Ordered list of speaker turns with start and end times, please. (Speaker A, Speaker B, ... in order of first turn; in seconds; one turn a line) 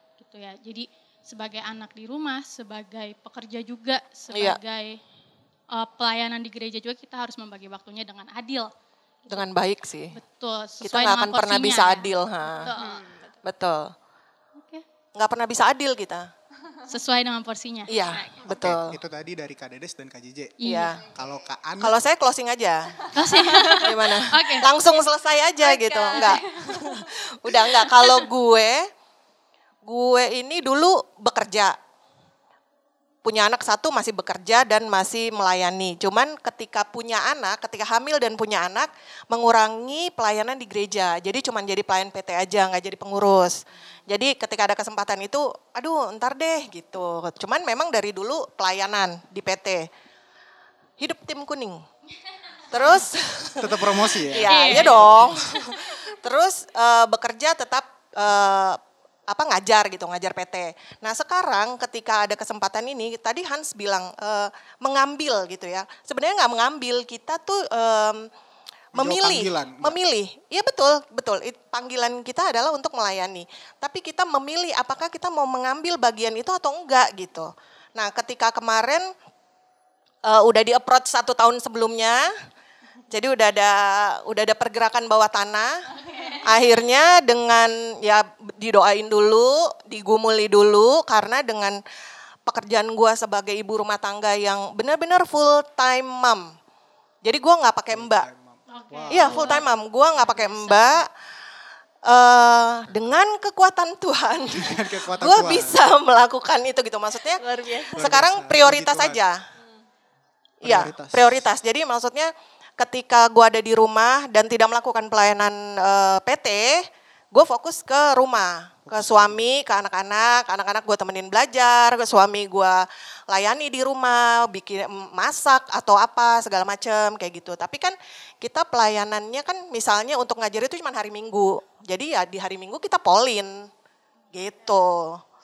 Speaker A: 0.2-5.0
Speaker B: 4.3-4.6
Speaker A: 5.7-8.7
Speaker B: 9.3-10.1
Speaker A: 10.1-13.1
Speaker B: 10.8-12.7
Speaker C: 12.8-13.2
Speaker B: 13.4-13.9
Speaker A: 14.6-14.8
Speaker B: 15.1-16.3
Speaker A: 16.9-18.3
Speaker B: 17.9-19.0
Speaker D: 18.4-20.5
Speaker A: 20.6-20.9
Speaker B: 20.6-21.0
Speaker D: 21.1-22.0
Speaker B: 21.8-23.1
Speaker A: 23.1-24.7
Speaker C: 23.4-23.8
Speaker B: 23.7-28.9
Speaker C: 25.6-27.0
Speaker B: 29.8-31.8
Speaker B: 33.2-43.6
Speaker B: 44.1-49.9
Speaker B: 51.0-51.8
Speaker B: 52.7-68.3
Speaker D: 53.6-55.2
Speaker A: 54.5-55.9
Speaker B: 68.9-79.1
Speaker D: 69.0-70.0
Speaker B: 80.2-82.3
Speaker B: 83.1-91.8
Speaker B: 92.5-96.4
Speaker B: 97.2-98.3
Speaker D: 97.9-99.7
Speaker A: 98.7-99.7
Speaker B: 99.1-101.1
Speaker A: 100.2-100.8
Speaker B: 102.0-107.4
Speaker D: 102.9-103.2
Speaker D: 104.6-105.8
Speaker C: 107.4-108.0
Speaker B: 108.0-109.3
Speaker D: 108.0-109.2
Speaker B: 110.6-133.7
Speaker D: 110.6-111.4
Speaker D: 118.9-119.4
Speaker B: 134.3-135.2